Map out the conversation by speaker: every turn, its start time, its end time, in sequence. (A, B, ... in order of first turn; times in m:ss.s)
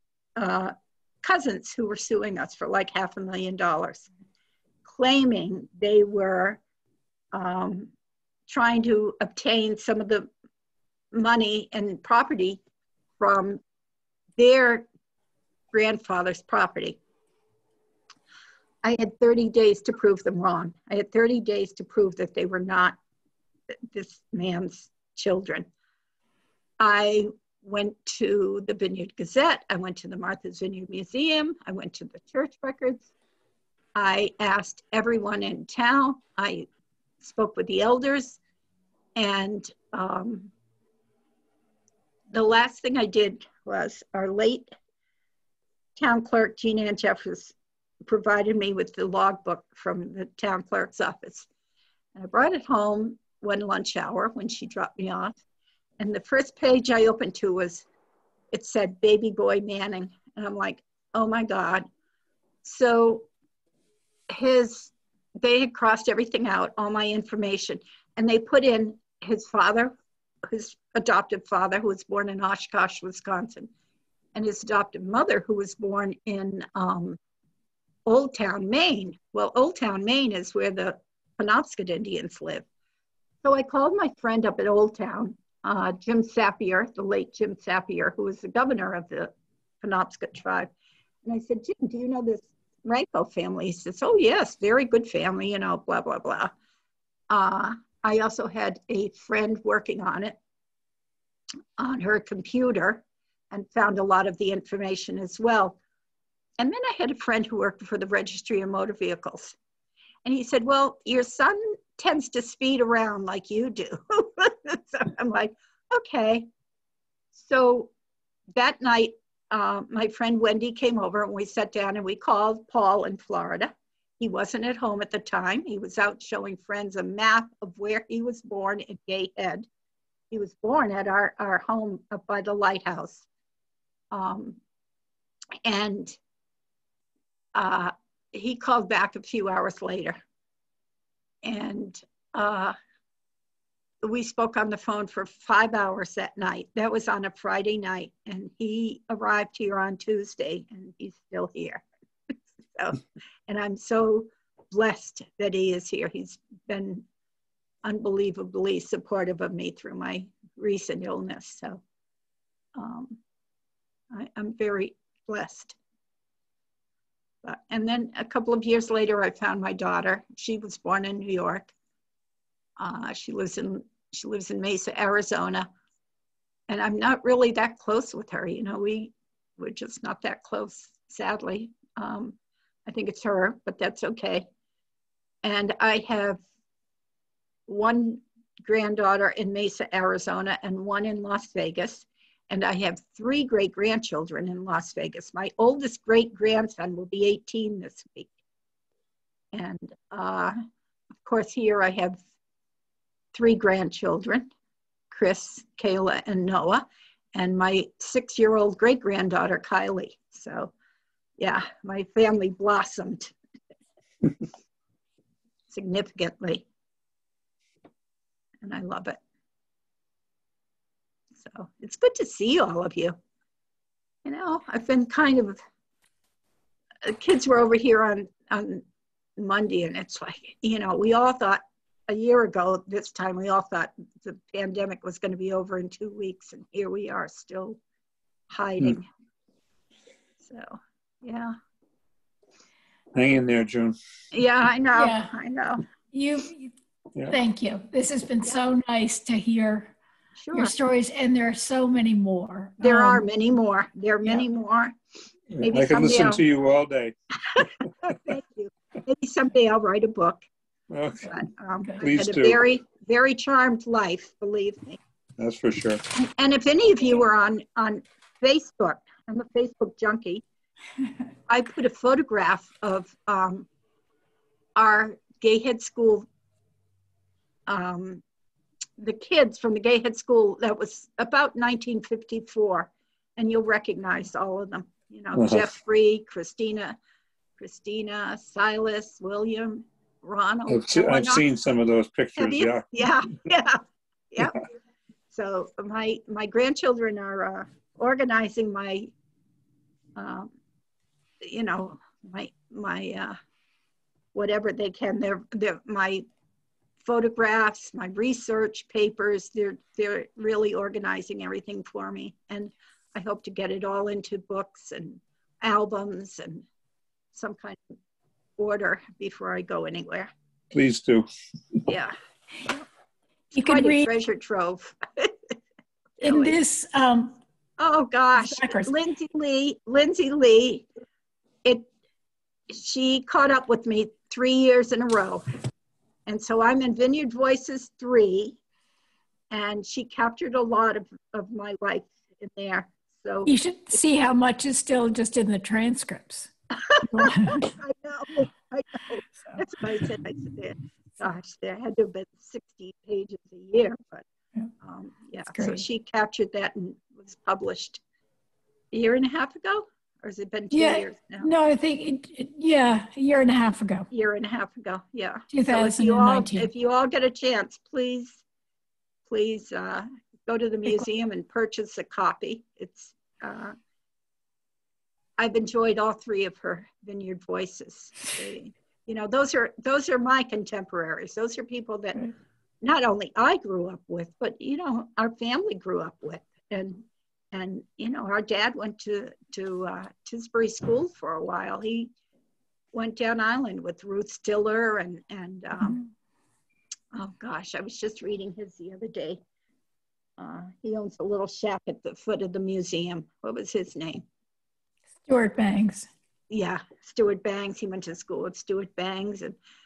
0:00.4-0:04.1 A
0:04.9-0:06.6 A
0:07.3-0:07.9 A
0:08.5-0:10.3 A
0:11.1-0:12.6 A
0:13.2-0:13.6 A
0:14.4-0:14.9 A
0:15.7-0:17.0 A
0:18.8-0:23.0 A
0:23.9-0:25.7 A
0:26.8-0:33.1 A
0:34.0-0:36.7 A
0:37.2-0:38.4 A
0:39.2-0:40.5 A
0:42.3-0:44.7 A
0:46.0-0:47.5 A
0:48.0-0:51.5 A
0:52.1-0:55.4 A
0:56.0-0:57.9 A
0:58.5-1:01.9 A
1:02.6-1:03.3 A
1:04.3-1:09.9 A
1:10.5-1:13.7 A
1:14.4-1:17.2 A
1:18.1-1:22.6 A
1:23.4-1:29.3 A
1:29.8-1:30.7 A
1:31.2-1:36.5 A
1:37.3-1:40.4 A
1:41.8-1:45.8 A
1:46.6-1:49.6 A
1:50.2-1:56.5 A
1:57.4-1:57.9 A
1:58.6-2:09.7 A
2:10.3-2:13.3 A
2:14.1-2:14.6 A
2:15.6-2:16.2 A
2:17.5-2:20.2 A
2:21.4-2:22.8 A
2:24.0-2:31.8 A
2:32.8-2:37.0 A
2:37.8-2:41.8 A
2:42.8-2:43.2 A
2:44.1-2:45.8 A
2:47.4-2:51.7 A
2:52.8-2:55.7 A
2:56.7-3:04.5 A
3:05.4-3:06.4 A
3:07.7-3:18.4 A
3:19.5-3:20.6 A
3:21.2-3:22.2 A
3:23.3-3:24.5 A
3:25.1-3:30.7 A
3:31.4-3:33.3 A
3:35.7-3:36.7 A
3:38.6-3:39.2 A
3:41.4-3:43.2 A
3:44.2-3:45.6 A
3:47.0-3:48.8 A
3:49.4-3:57.8 A
3:58.5-3:59.1 A
4:00.4-4:01.6 A
4:03.1-4:04.0 B
4:04.3-4:05.8 A
4:04.9-4:05.3 C
4:06.1-4:06.7 C
4:07.3-4:09.9 C
4:10.4-4:10.7 A
4:10.5-4:13.2 C
4:12.8-4:14.9 A
4:15.5-4:17.1 B
4:15.6-4:16.4 A
4:17.6-4:20.4 A
4:20.9-4:21.3 B
4:21.3-4:25.0 A
4:22.0-4:22.6 B
4:25.4-4:26.0 B
4:26.1-4:30.4 A
4:31.5-4:33.7 A
4:34.8-4:36.3 A
4:37.7-4:38.2 A
4:39.0-4:47.0 A
4:45.4-4:45.7 B
4:47.6-4:51.5 A
4:50.7-4:52.9 B
4:52.4-4:53.8 A
4:54.3-4:54.6 A
4:55.3-4:59.1 A
5:00.2-5:00.5 A
5:01.4-5:03.4 A
5:04.3-5:06.3 A
5:07.0-5:16.6 A
5:17.3-5:17.9 A
5:18.6-5:20.3 A
5:20.7-5:21.3 B
5:21.9-5:22.1 A
5:23.5-5:24.1 C
5:23.5-5:25.5 A
5:26.2-5:26.6 A
5:26.2-5:27.4 C
5:27.8-5:30.9 A
5:28.4-5:28.9 C
5:32.7-5:35.4 A
5:36.3-5:38.6 A
5:39.5-5:43.5 A
5:43.4-5:46.5 C
5:47.0-5:54.2 A
5:47.0-5:47.7 C
5:49.4-5:49.6 C
5:54.8-5:58.0 A
5:55.4-5:55.8 C
5:58.9-6:01.5 A
6:00.7-6:04.1 C
6:04.1-6:08.4 A
6:05.5-6:06.7 C
6:09.3-6:13.7 A
6:15.4-6:22.2 A
6:22.8-6:32.1 A
6:32.9-6:36.0 A
6:37.1-6:39.4 A
6:40.4-6:44.2 A
6:45.3-6:46.1 C
6:46.5-6:49.6 A